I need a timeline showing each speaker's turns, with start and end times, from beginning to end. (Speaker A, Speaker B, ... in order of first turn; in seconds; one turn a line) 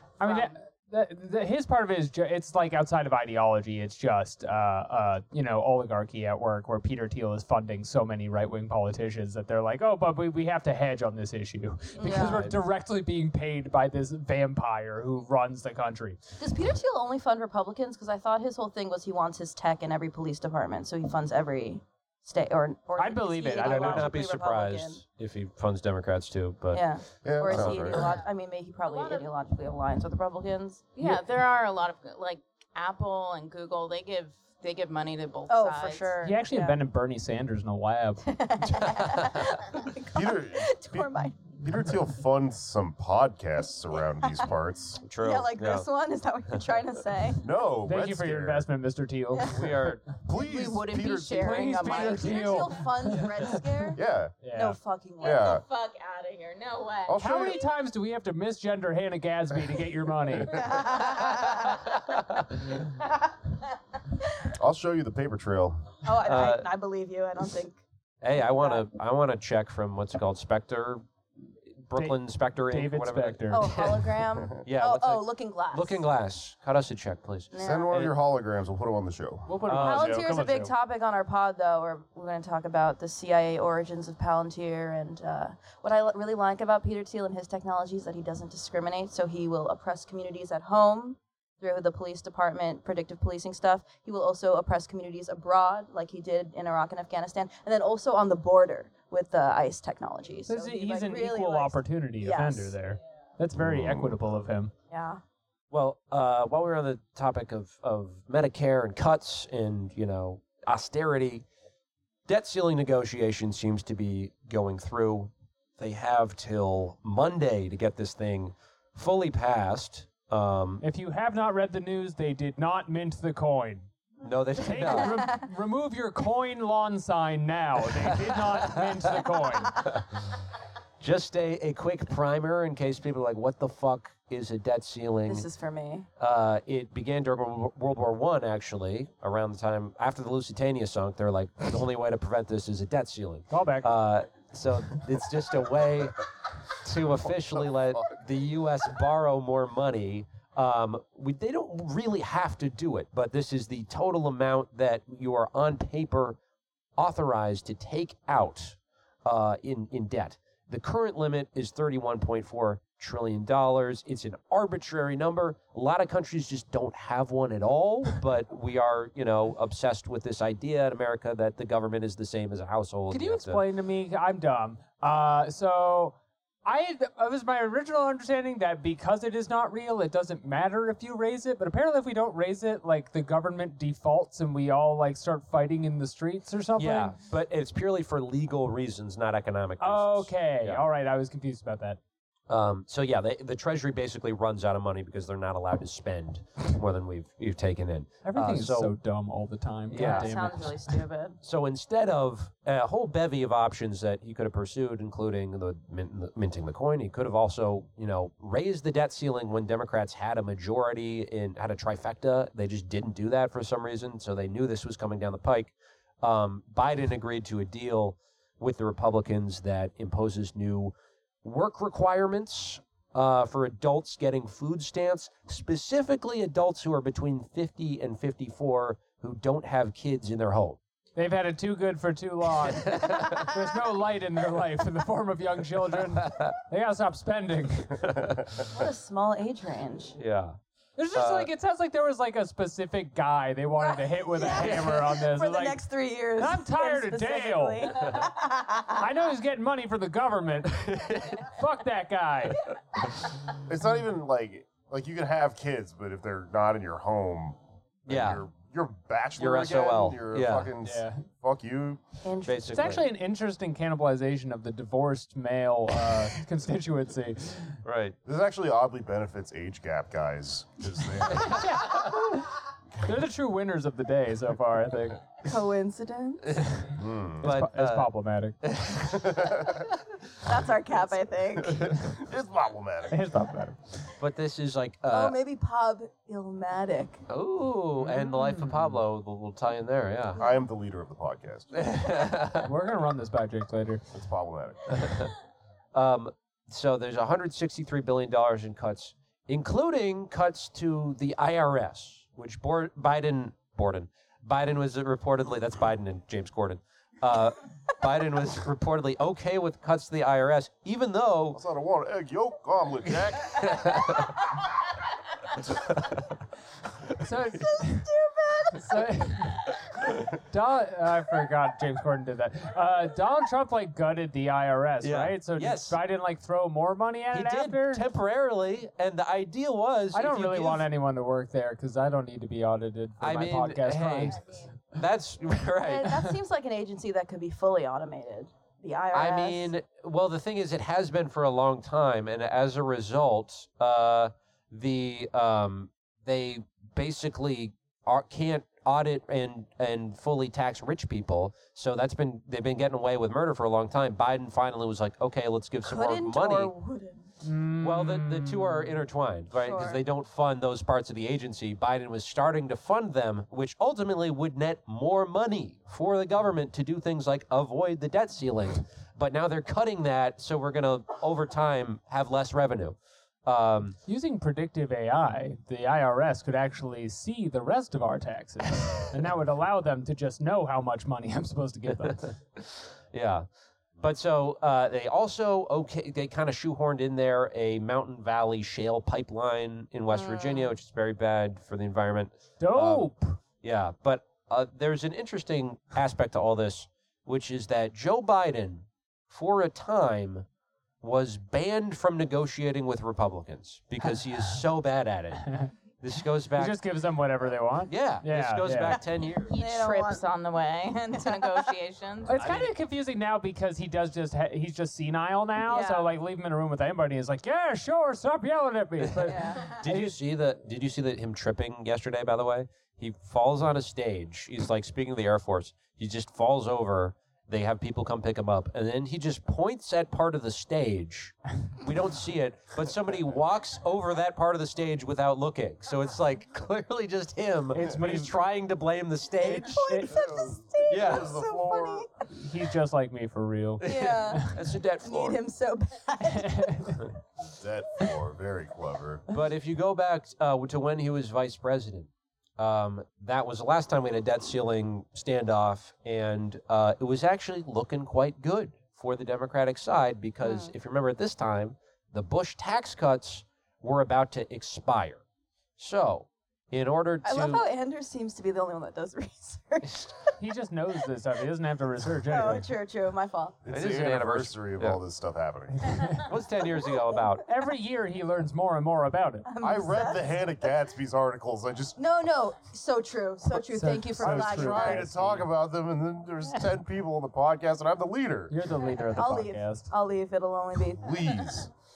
Speaker A: 0.2-16.2
Speaker B: 0.2-0.5
Speaker C: 12.0-12.5
Speaker D: 12.1-12.5
Speaker C: 16.4-25.0
Speaker A: 23.0-24.2
Speaker D: 23.6-26.9
Speaker C: 26.7-30.9
Speaker E: 27.2-28.1
Speaker D: 27.4-28.1
Speaker B: 28.8-29.3
Speaker B: 30.9-36.2
Speaker C: 35.5-36.8
Speaker A: 36.2-38.3
Speaker C: 38.3-41.5
Speaker D: 38.7-39.5
Speaker E: 40.1-45.0
Speaker D: 45.0-45.9
Speaker C: 45.2-47.4
Speaker E: 47.4-48.7
Speaker A: 47.9-49.8
Speaker C: 49.3-49.8
Speaker D: 49.5-50.1
Speaker E: 50.2-51.6
Speaker C: 50.3-55.5
Speaker B: 50.5-52.6
Speaker A: 51.3-54.8
Speaker E: 53.9-54.4
Speaker B: 55.2-57.5
Speaker E: 55.2-55.6
Speaker E: 57.0-57.6
Speaker A: 57.2-60.7
Speaker C: 60.5-61.8
Speaker E: 64.5-66.0
Speaker C: 66.0-67.8
Speaker D: 66.2-66.7
Speaker D: 68.2-71.0
Speaker C: 68.3-68.9
Speaker D: 71.8-78.1
Speaker A: 72.0-73.7
Speaker C: 73.5-76.0
Speaker C: 77.5-78.0
Speaker E: 77.5-79.6
Speaker A: 79.5-80.7
Speaker D: 79.7-80.2
Speaker C: 79.8-102.7
Speaker A: 100.5-104.7
Speaker E: 103.5-104.2
Speaker C: 104.9-105.2
Speaker D: 105.7-111.4
Speaker D: 112.3-120.8
Speaker A: 120.8-123.9
Speaker D: 124.2-125.3
Speaker A: 124.6-129.8
Speaker C: 125.0-125.4
Speaker D: 128.2-128.9
Speaker D: 129.8-130.0
Speaker D: 131.0-135.5
Speaker C: 135.3-136.1
Speaker D: 136.2-156.4
Speaker A: 143.5-143.9
Speaker D: 157.0-173.6
Speaker A: 173.1-187.2
Speaker D: 186.8-190.8
Speaker A: 189.8-192.0
Speaker D: 192.5-198.9
Speaker A: 198.2-201.0
Speaker D: 199.9-200.6
Speaker C: 199.9-201.4
Speaker D: 201.4-230.8
Speaker A: 231.2-238.1
Speaker D: 232.7-233.5
Speaker D: 236.1-236.5
Speaker D: 238.0-238.4
Speaker C: 238.6-240.2
Speaker D: 240.2-240.6
Speaker A: 241.0-245.8
Speaker D: 241.1-241.5
Speaker C: 243.8-249.0
Speaker D: 244.5-244.9
Speaker A: 246.4-248.1
Speaker A: 248.9-252.7
Speaker D: 250.7-251.4
Speaker E: 253.6-262.0
Speaker D: 258.1-258.4
Speaker D: 259.4-260.7
Speaker A: 260.8-261.2
Speaker C: 262.2-263.0
Speaker D: 262.4-263.0
Speaker A: 262.7-267.8
Speaker D: 267.8-268.1
Speaker E: 268.2-271.7
Speaker A: 271.3-275.2
Speaker C: 275.4-276.5
Speaker D: 276.5-276.9
Speaker E: 276.9-277.5
Speaker D: 277.4-278.1
Speaker A: 277.4-278.6
Speaker D: 278.6-279.7
Speaker E: 279.1-279.9
Speaker C: 280.4-281.9
Speaker E: 281.7-283.3
Speaker A: 283.1-284.1
Speaker D: 284.2-285.4
Speaker C: 285.1-287.2
Speaker D: 287.3-290.4
Speaker A: 288.0-289.0
Speaker E: 290.4-291.9
Speaker D: 291.7-292.7
Speaker A: 292.6-294.0
Speaker E: 294.1-295.3
Speaker D: 294.9-295.3
Speaker D: 295.9-311.6
Speaker E: 311.5-314.1
Speaker D: 313.4-314.4
Speaker D: 315.7-316.2
Speaker A: 317.2-318.1
Speaker C: 317.8-318.9
Speaker A: 318.7-319.8
Speaker A: 320.3-328.0
Speaker D: 325.0-326.0
Speaker D: 327.3-330.9
Speaker A: 330.1-334.4
Speaker D: 333.2-336.3
Speaker C: 335.8-339.7
Speaker D: 339.1-356.7
Speaker C: 355.8-357.3
Speaker A: 357.4-359.0
Speaker D: 357.8-374.0
Speaker C: 359.6-360.0
Speaker A: 374.1-382.3
Speaker D: 382.0-383.5
Speaker D: 384.0-393.1
Speaker C: 390.1-390.7
Speaker A: 392.6-393.4
Speaker D: 393.6-400.4
Speaker D: 401.0-406.8
Speaker A: 405.4-405.7
Speaker A: 406.5-409.0
Speaker D: 407.9-409.5
Speaker B: 409.5-412.5
Speaker C: 409.5-410.2
Speaker C: 411.1-411.7
Speaker A: 412.2-420.1
Speaker D: 412.4-412.7
Speaker C: 415.6-416.1
Speaker D: 419.2-439.9
Speaker C: 419.2-419.7
Speaker A: 437.7-438.3
Speaker C: 439.4-442.1
Speaker A: 439.7-440.1
Speaker E: 440.1-442.1
Speaker D: 440.9-441.4
Speaker A: 442.3-444.6
Speaker D: 443.8-445.4
Speaker C: 443.8-444.5
Speaker C: 445.0-446.9
Speaker A: 446.3-447.1
Speaker E: 447.4-449.2
Speaker D: 449.3-465.2
Speaker C: 460.4-460.7
Speaker D: 465.8-467.6
Speaker C: 467.2-470.3
Speaker A: 470.4-472.7
Speaker C: 472.3-473.6
Speaker E: 473.6-476.2
Speaker D: 473.7-475.0
Speaker D: 476.1-477.4
Speaker C: 476.9-477.2
Speaker A: 477.5-479.5
Speaker C: 479.5-480.5
Speaker E: 479.6-482.0
Speaker C: 482.0-485.1
Speaker A: 483.7-485.5
Speaker E: 484.2-488.6
Speaker A: 488.5-489.9
Speaker C: 489.1-491.6
Speaker E: 491.0-491.7